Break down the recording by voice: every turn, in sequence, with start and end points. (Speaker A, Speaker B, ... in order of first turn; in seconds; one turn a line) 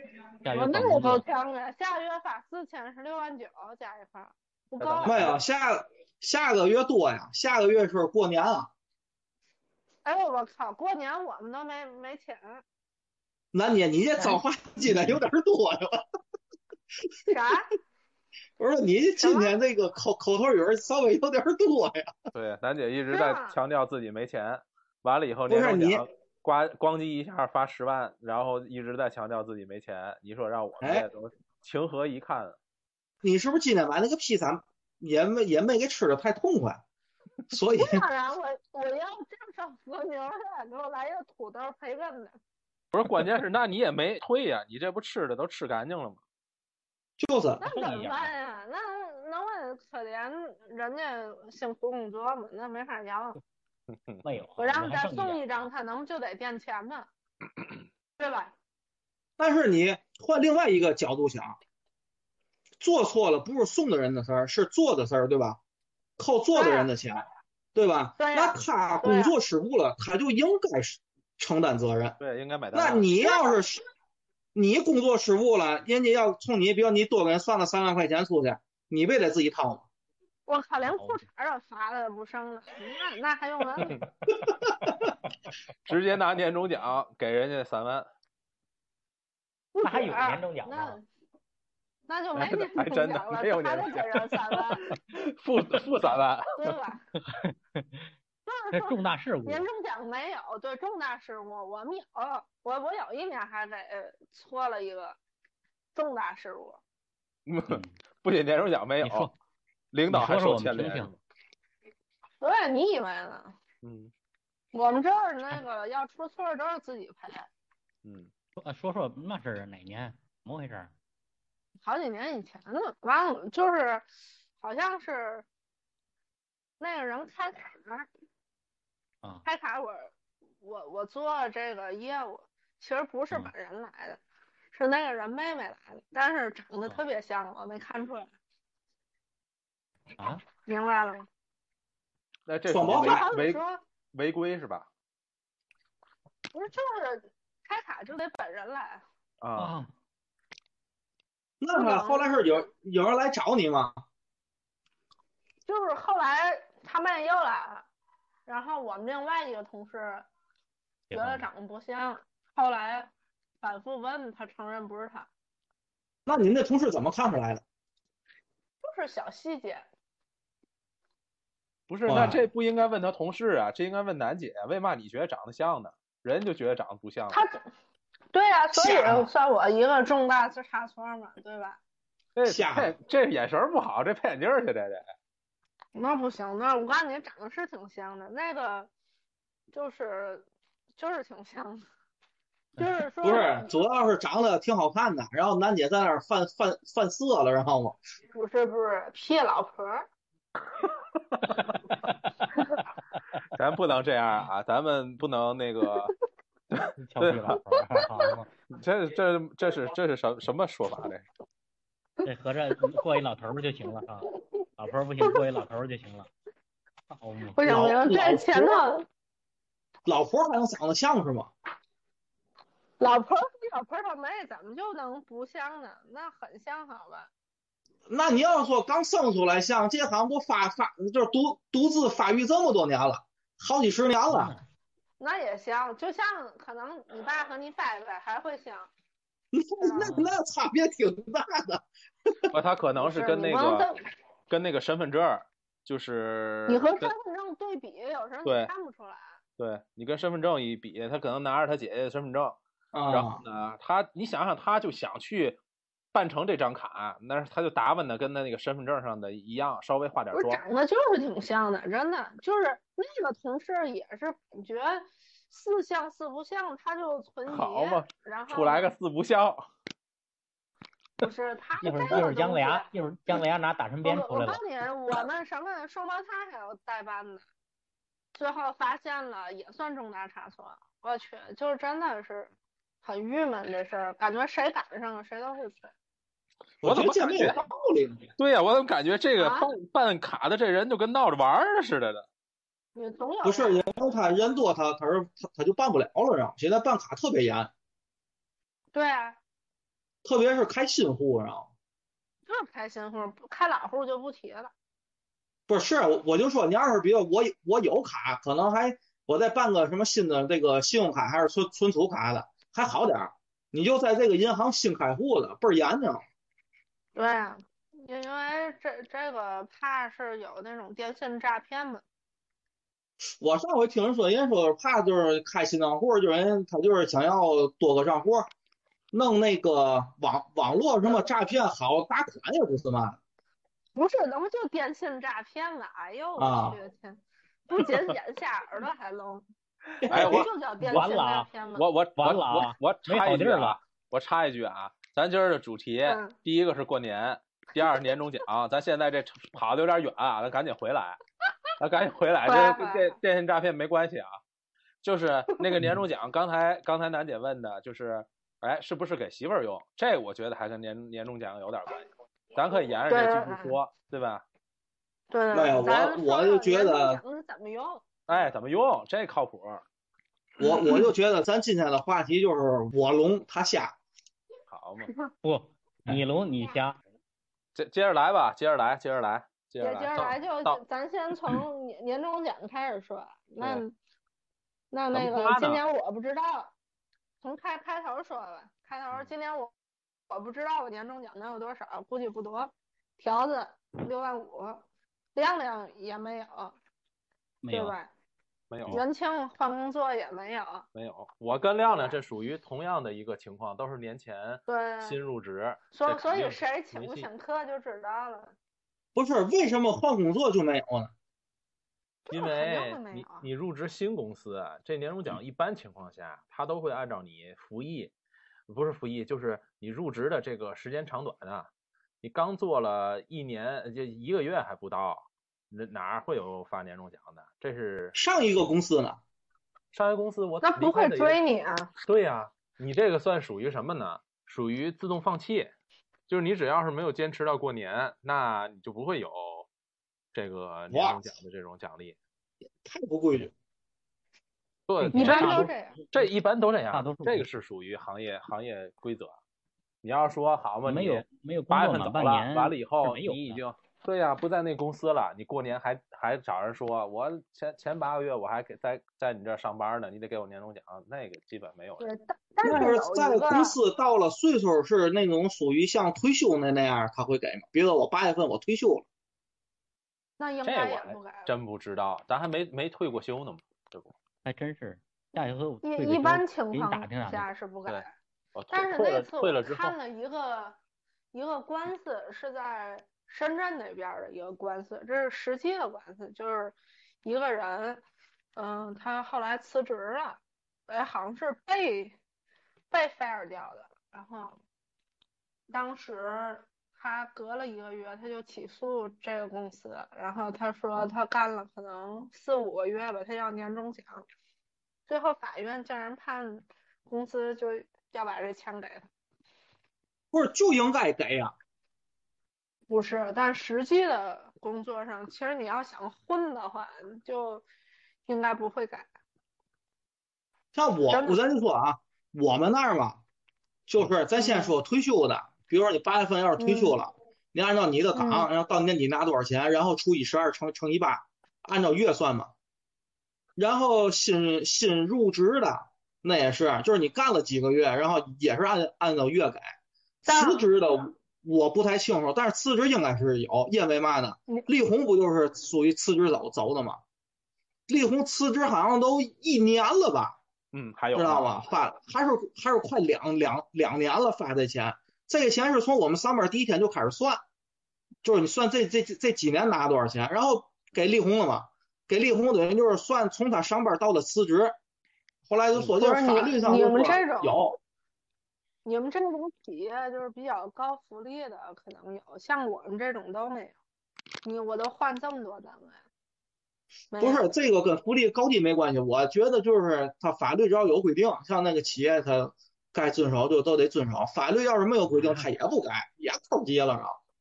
Speaker A: 0.4-1.2
Speaker B: 0.5-5.2
Speaker C: 4.8-5.4
Speaker D: 5.0-8.7
Speaker B: 10.0-12.6
Speaker D: 13.5-16.0
Speaker A: 14.2-15.2
Speaker B: 17.3-17.7
Speaker D: 18.6-22.1
Speaker B: 19.2-19.6
Speaker C: 22.3-32.6
Speaker B: 23.1-23.6
Speaker D: 25.5-26.0
Speaker D: 30.8-31.1
Speaker D: 33.2-36.8
Speaker D: 37.5-38.0
Speaker B: 37.7-42.4
Speaker C: 42.9-46.2
Speaker D: 47.2-47.6
Speaker B: 47.6-53.4
Speaker A: 47.6-48.3
Speaker C: 53.9-54.2
Speaker A: 54.2-55.7
Speaker B: 54.6-57.1
Speaker B: 58.2-58.5
Speaker D: 59.4-61.6
Speaker D: 62.8-65.6
Speaker D: 66.2-67.2
Speaker B: 66.5-66.9
Speaker D: 67.7-72.2
Speaker B: 68.2-69.3
Speaker C: 72.2-73.1
Speaker D: 72.7-73.8
Speaker B: 73.2-73.7
Speaker D: 74.5-79.9
Speaker B: 80.5-83.9
Speaker A: 80.9-81.2
Speaker C: 85.9-88.1
Speaker B: 89.7-91.0
Speaker A: 89.8-91.0
Speaker B: 92.1-94.9
Speaker C: 92.4-96.5
Speaker B: 96.5-97.1
Speaker A: 97.2-98.0
Speaker B: 98.5-105.2
Speaker A: 98.7-99.7
Speaker B: 105.9-106.8
Speaker C: 107.5-109.3
Speaker A: 107.7-107.9
Speaker A: 109.0-109.3
Speaker C: 109.9-111.2
Speaker A: 110.1-111.1
Speaker B: 112.4-113.6
Speaker C: 113.8-114.1
Speaker B: 114.7-117.5
Speaker C: 118.0-118.3
Speaker A: 118.6-120.9
Speaker B: 121.8-124.0
Speaker B: 124.6-125.5
Speaker B: 126.8-128.1
Speaker B: 129.4-134.2
Speaker B: 134.7-138.3
Speaker B: 140.5-141.3
Speaker C: 142.5-143.6
Speaker D: 142.7-143.3
Speaker B: 142.9-143.8
Speaker C: 144.1-144.9
Speaker B: 146.5-149.0
Speaker C: 149.4-149.7
Speaker A: 149.6-149.9
Speaker D: 151.6-154.0
Speaker B: 151.7-152.7
Speaker B: 155.7-157.9
Speaker B: 158.5-160.2
Speaker A: 161.1-161.5
Speaker B: 161.1-165.3
Speaker D: 166.2-167.6
Speaker B: 168.8-169.9
Speaker C: 171.9-177.4
Speaker D: 172.1-172.4
Speaker B: 177.3-177.6
Speaker B: 178.3-181.8
Speaker D: 178.7-179.3
Speaker C: 182.3-185.0
Speaker D: 182.4-183.0
Speaker B: 185.9-188.9
Speaker B: 189.7-190.5
Speaker B: 191.0-191.8
Speaker B: 192.8-193.8
Speaker D: 193.2-198.0
Speaker B: 198.3-200.1
Speaker C: 200.9-201.6
Speaker A: 201.8-202.1
Speaker C: 203.5-206.1
Speaker C: 206.7-207.6
Speaker A: 207.0-208.5
Speaker C: 208.7-211.3
Speaker A: 212.2-216.3
Speaker B: 214.3-214.6
Speaker A: 217.1-217.6
Speaker B: 217.5-219.1
Speaker D: 217.6-218.8
Speaker D: 220.1-221.5
Speaker B: 223.0-227.3
Speaker D: 228.1-234.5
Speaker A: 234.3-234.6
Speaker B: 235.2-238.9
Speaker D: 239.5-242.4
Speaker B: 239.8-240.2
Speaker A: 240.0-240.3
Speaker C: 242.5-243.9
Speaker B: 243.0-244.0
Speaker C: 244.5-247.1
Speaker B: 246.7-249.3
Speaker C: 248.4-248.7
Speaker C: 249.6-252.6
Speaker D: 252.9-253.4
Speaker C: 253.1-255.6
Speaker C: 256.1-260.6
Speaker B: 260.3-268.9
Speaker C: 267.5-269.7
Speaker B: 271.2-272.9
Speaker A: 271.8-274.6
Speaker B: 274.0-277.4
Speaker B: 278.3-282.5
Speaker B: 283.0-285.9
Speaker C: 286.8-287.6
Speaker D: 286.8-288.3
Speaker C: 288.4-292.3
Speaker B: 289.4-289.7
Speaker B: 292.9-293.9
Speaker D: 293.4-297.7
Speaker B: 298.9-299.4
Speaker D: 300.2-301.7
Speaker B: 302.5-304.7
Speaker D: 305.7-316.2
Speaker B: 317.2-322.0
Speaker D: 323.4-328.5
Speaker D: 329.1-333.2
Speaker B: 333.9-339.4
Speaker D: 336.4-336.8
Speaker D: 340.0-340.5
Speaker C: 340.1-340.5
Speaker B: 340.1-341.8
Speaker A: 340.8-341.5
Speaker C: 341.8-351.2
Speaker A: 342.2-343.8
Speaker B: 346.0-346.3
Speaker C: 351.8-354.4
Speaker B: 352.4-353.2
Speaker C: 355.0-364.4
Speaker B: 363.1-363.8
Speaker B: 365.3-368.5
Speaker D: 365.5-367.2
Speaker C: 368.3-369.8
Speaker D: 370.6-374.0
Speaker C: 374.7-375.1
Speaker A: 375.4-377.0
Speaker C: 377.8-380.8
Speaker B: 379.8-383.9
Speaker B: 384.9-386.7
Speaker C: 385.1-385.8
Speaker B: 387.4-389.7
Speaker B: 390.3-396.8
Speaker A: 397.6-398.0
Speaker B: 397.7-398.1
Speaker C: 398.7-399.0
Speaker B: 398.9-400.9
Speaker C: 400.9-407.3
Speaker B: 404.7-405.2
Speaker B: 405.9-408.6
Speaker D: 409.1-411.1
Speaker B: 412.3-413.5
Speaker C: 412.3-418.1
Speaker C: 418.7-421.7
Speaker C: 422.2-428.2
Speaker D: 428.1-429.2
Speaker C: 429.9-431.4
Speaker B: 430.6-431.9
Speaker C: 432.0-435.7
Speaker C: 436.3-439.7
Speaker C: 440.3-442.2
Speaker D: 440.9-441.2
Speaker D: 442.8-443.5
Speaker C: 444.9-449.3
Speaker A: 445.0-446.2
Speaker B: 445.1-446.0
Speaker A: 446.9-447.5
Speaker C: 450.0-462.1
Speaker A: 450.8-453.6
Speaker B: 462.0-463.8
Speaker D: 462.6-469.1
Speaker B: 470.4-471.5
Speaker C: 470.6-474.1
Speaker A: 474.4-477.5
Speaker B: 475.8-478.1
Speaker C: 477.9-479.9
Speaker B: 478.7-480.8
Speaker B: 481.3-488.0
Speaker B: 488.6-492.2
Speaker B: 492.9-494.6
Speaker B: 495.7-504.2
Speaker B: 505.1-509.1
Speaker D: 510.3-511.5
Speaker B: 512.9-517.6
Speaker B: 518.3-519.1
Speaker D: 520.7-523.2
Speaker B: 521.1-521.4
Speaker D: 523.9-532.5
Speaker B: 524.4-524.8
Speaker B: 526.6-527.0
Speaker B: 528.1-528.5
Speaker D: 533.5-539.7
Speaker B: 540.2-540.7
Speaker D: 540.2-547.0
Speaker D: 547.9-550.4
Speaker C: 550.7-551.5
Speaker D: 551.1-557.4
Speaker D: 558.2-564.8
Speaker D: 565.5-567.8
Speaker B: 565.9-567.6
Speaker B: 568.8-573.8
Speaker B: 574.4-576.0
Speaker B: 577.1-577.5
Speaker D: 577.2-587.2
Speaker A: 585.1-585.5